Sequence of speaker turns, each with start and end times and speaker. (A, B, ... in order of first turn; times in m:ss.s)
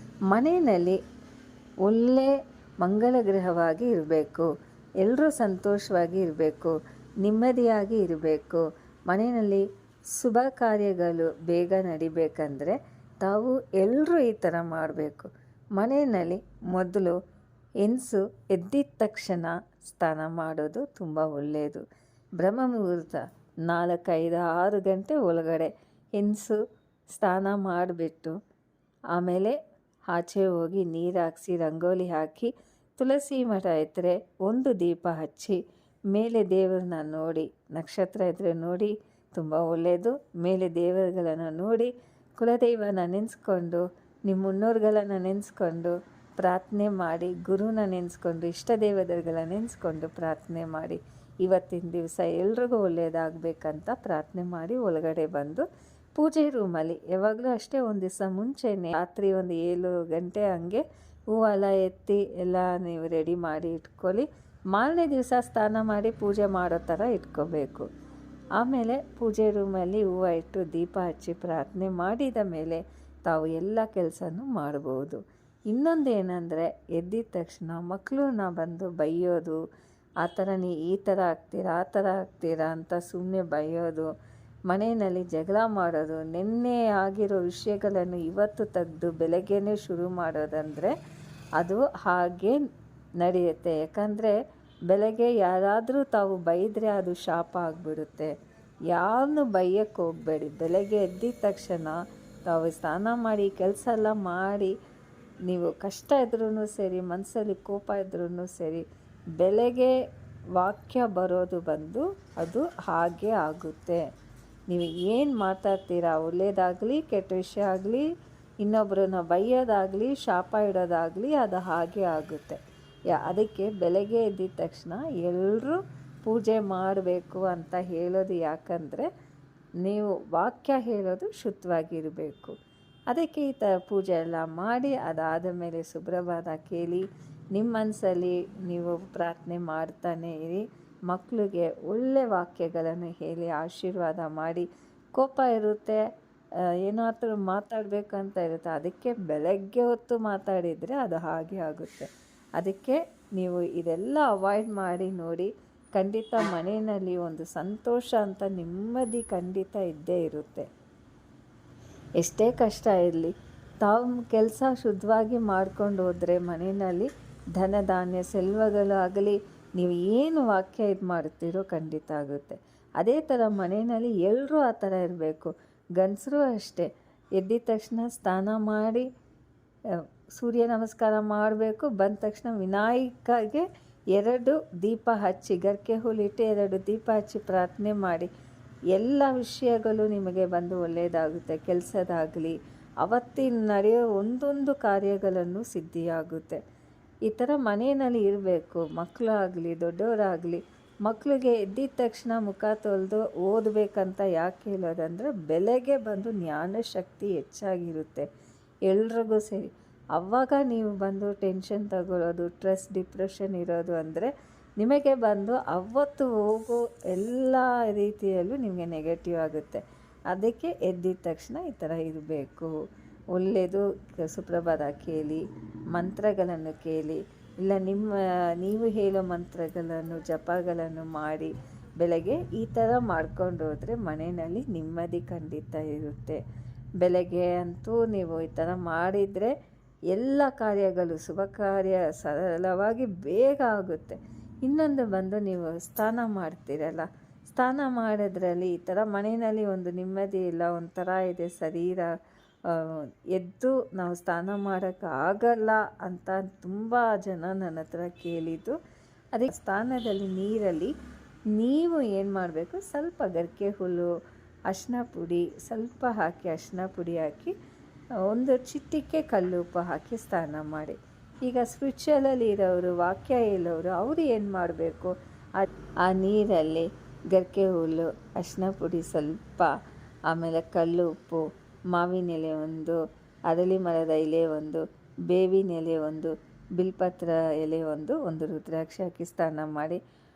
0:00.3-0:01.0 A
0:01.8-0:04.5 A
0:05.0-0:09.6 A
0:10.2-0:17.2 A
0:17.8-0:21.8 A
0:22.4-0:26.6 A
0:27.1-0:28.4 A
0:29.1-0:29.6 A
0:30.1-0:35.6 A
0:36.1-0:55.6 A
0:56.2-1:07.8 A
1:08.6-1:19.6 A
1:20.2-1:24.1 A
1:24.7-1:30.9 A
1:31.6-1:32.6 A
1:33.2-1:34.4 A
1:34.9-1:38.3 A
1:38.9-1:44.7 A
1:45.5-1:48.8 A
1:49.4-1:49.9 A
1:50.6-1:54.0 A
1:54.7-1:58.0 A
1:58.6-2:02.6 A
2:03.1-2:09.1 A
2:09.8-2:12.5 A
2:13.1-2:26.0 A
2:26.8-2:32.1 A
2:32.6-2:40.6 A
2:42.2-2:59.0 A
3:00.4-3:08.3 A
3:08.9-3:16.6 A
3:17.3-3:28.2 A
3:28.9-3:42.7 A
3:43.3-3:45.4 A
3:45.9-3:56.4 A
3:57.0-3:59.5 A
4:00.1-4:12.1 A
4:12.7-4:18.8 A
4:19.3-4:20.9 A
4:21.5-4:24.1 A
4:24.7-4:27.5 A
4:28.3-4:39.8 A
4:40.3-4:50.0 A